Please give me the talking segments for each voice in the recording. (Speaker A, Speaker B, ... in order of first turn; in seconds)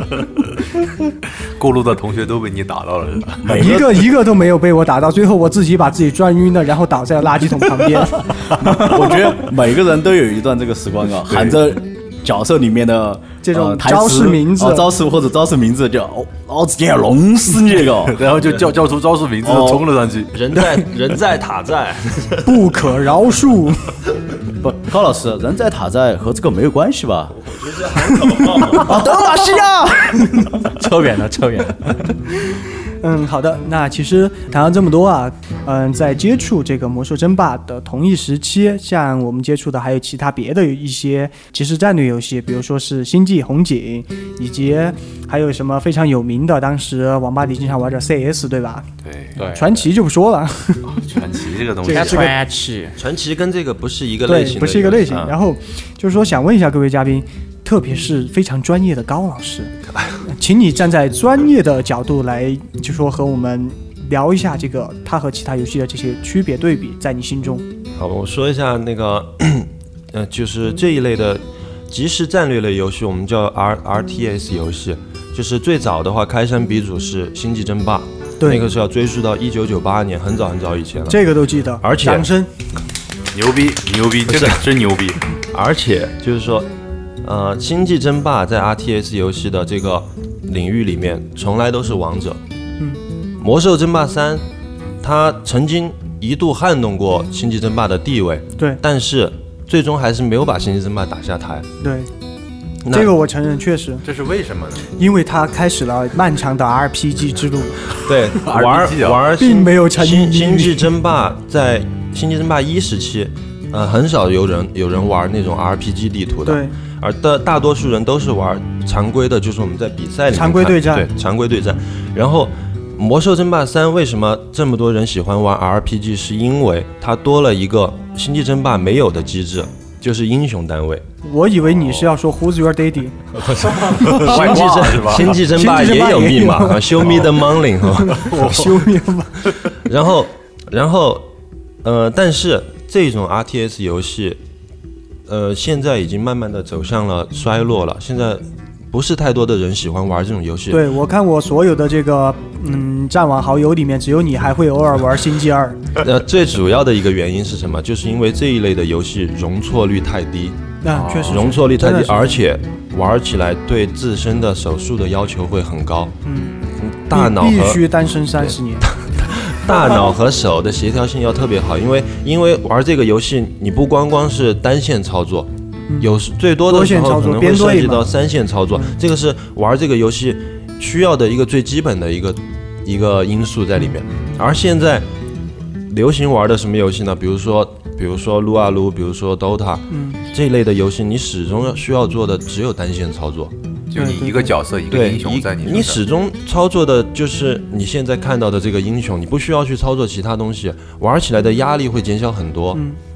Speaker A: 1.6-3.6, 11.3-11.6, 17.9-20.4, 49.0-49.5, 50.9-52.3, 83.3-85.2, 104.0-104.9, 108.3-109.2, 133.9-135.5, 137.0-137.3, 160.9-161.6, 193.9-196.0
Speaker B: 3.4-4.1, 8.6-18.2, 19.4-19.9, 24.6-27.4, 28.7-30.4, 134.4-134.9
Speaker C: 3.5-8.3, 13.4-14.9, 22.4-24.0, 33.0-48.9, 49.4-51.0, 51.9-52.4, 54.3-67.6, 78.4-78.7, 81.1-82.5, 101.8-102.1, 102.9-104.0, 105.0-107.8, 109.4-110.9, 116.5-116.8, 120.3-121.1, 131.2-134.5, 135.5-137.2, 138.0-139.8, 150.7-155.8, 160.8-162.4, 166.2-166.5, 167.1-168.9, 176.7-178.1, 189.9-190.2, 193.9-194.5
Speaker D: 20.3-22.6, 27.4-29.0, 53.0-55.2, 59.9-60.2, 68.0-81.2, 81.8-82.3, 84.3-84.6, 85.5-86.7, 87.2-92.4, 93.4-94.4, 95.0-101.7, 102.8-103.1, 108.0-131.0, 133.3-139.0, 139.7-141.3, 141.8-144.4, 145.3-150.8, 156.0-160.6, 161.2-166.1, 166.8-167.8, 168.4-185.1, 185.9-193.5, 194.9-202.8
Speaker E: 30.4-32.1, 49.4-49.8, 51.9-53.0